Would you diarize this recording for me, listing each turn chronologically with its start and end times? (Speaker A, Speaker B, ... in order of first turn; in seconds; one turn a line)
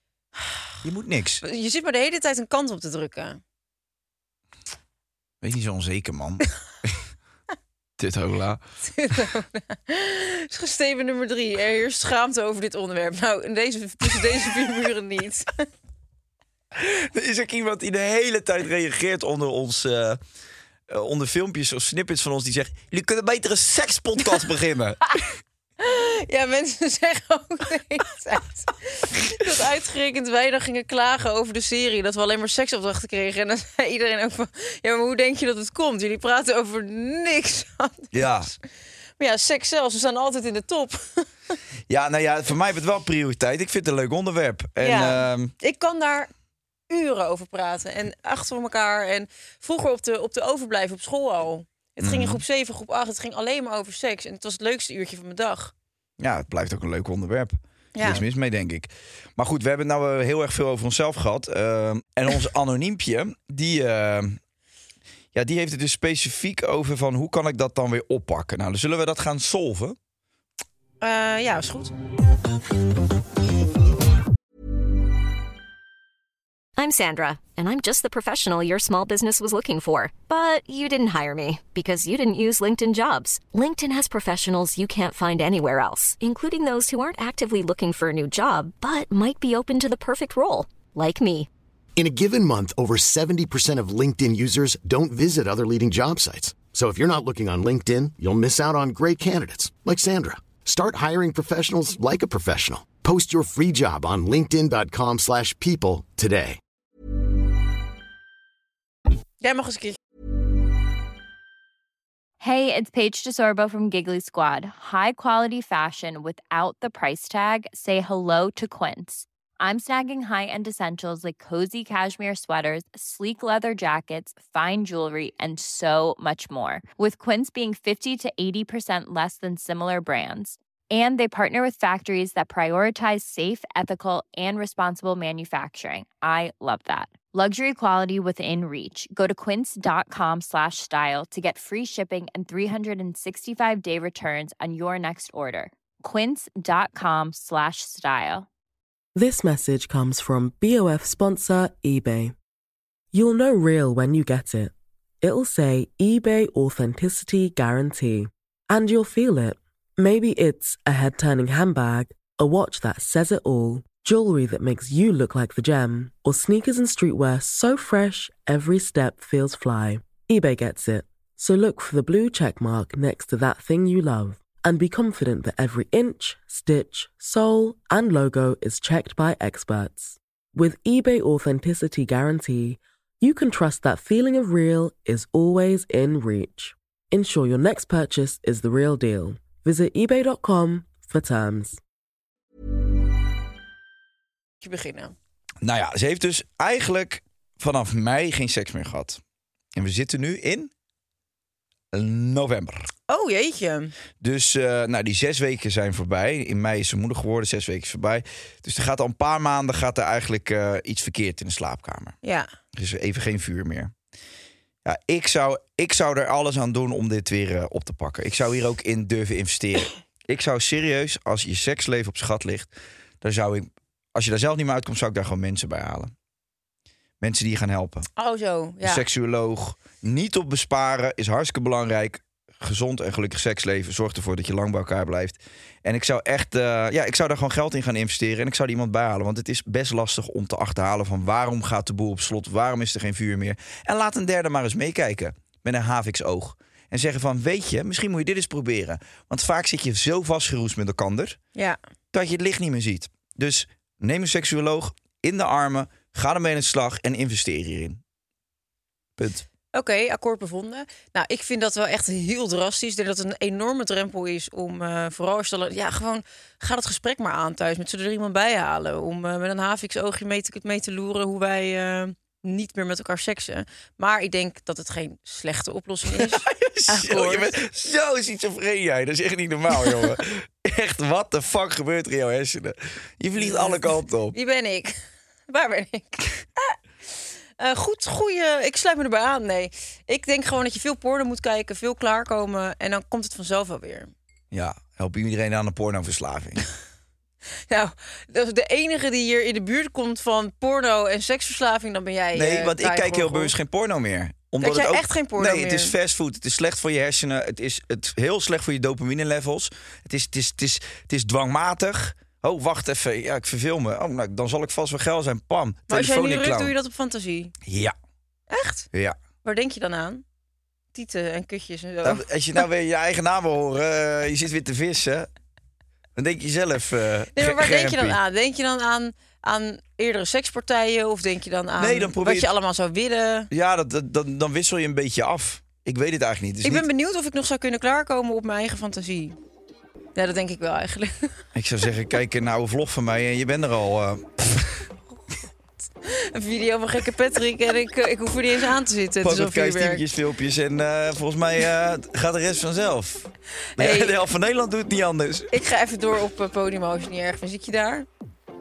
Speaker A: 0.8-1.4
Speaker B: 1.4-3.4
Speaker A: 5.4-7.0
Speaker A: 8.0-8.6
Speaker B: 8.8-15.5
Speaker A: 16.7-20.2
Speaker A: 20.9-25.3
Speaker B: 25.8-38.6
Speaker A: 38.1-38.5
Speaker B: 39.2-41.3
Speaker A: 41.9-45.5
Speaker B: 44.8-46.3
Speaker B: 46.9-55.7
Speaker A: 52.0-52.4
Speaker A: 56.2-64.4
Speaker B: 57.9-58.2
Speaker A: 65.3-70.0
Speaker B: 71.0-71.9
Speaker C: 76.8-91.5
Speaker D: 92.0-106.6
Speaker B: 109.4-110.0
Speaker E: 112.4-148.5
Speaker F: 149.1-152.3
Speaker F: 153.1-191.8
Speaker B: 194.6-195.1
Speaker A: 195.6-199.2
Speaker A: 199.7-200.7
Speaker A: 201.9-202.9
Speaker B: 203.1-203.9
Speaker A: 204.2-212.2
Speaker B: 212.2-212.5
Speaker A: 212.7-213.9
Speaker A: 214.8-226.1
Speaker A: 227.2-228.1
Speaker B: 228.2-229.0
Speaker A: 228.8-251.4
Speaker A: 252.1-258.0
Speaker A: 259.2-259.4
Speaker B: 259.7-277.6
Speaker A: 276.1-284.3
Speaker B: 283.3-284.9
Speaker B: 285.5-294.1
Speaker A: 294.5-296.6
Speaker B: 297.7-303.5
Speaker A: 302.3-316.7
Speaker B: 304.6-305.9
Speaker B: 315.9-317.5
Speaker A: 317.6-317.9
Speaker B: 318.5-318.9
Speaker B: 319.4-320.2
Speaker B: 320.9-322.6
Speaker A: 322.0-325.3
Speaker A: 326.1-328.2
Speaker B: 327.3-333.5
Speaker A: 331.8-332.5
Speaker A: 333.5-336.9
Speaker B: 336.6-339.4
Speaker B: 340.1-341.3
Speaker A: 341.5-344.9
Speaker B: 346.0-350.0
Speaker A: 349.2-355.5
Speaker B: 353.8-354.2
Speaker B: 355.5-358.1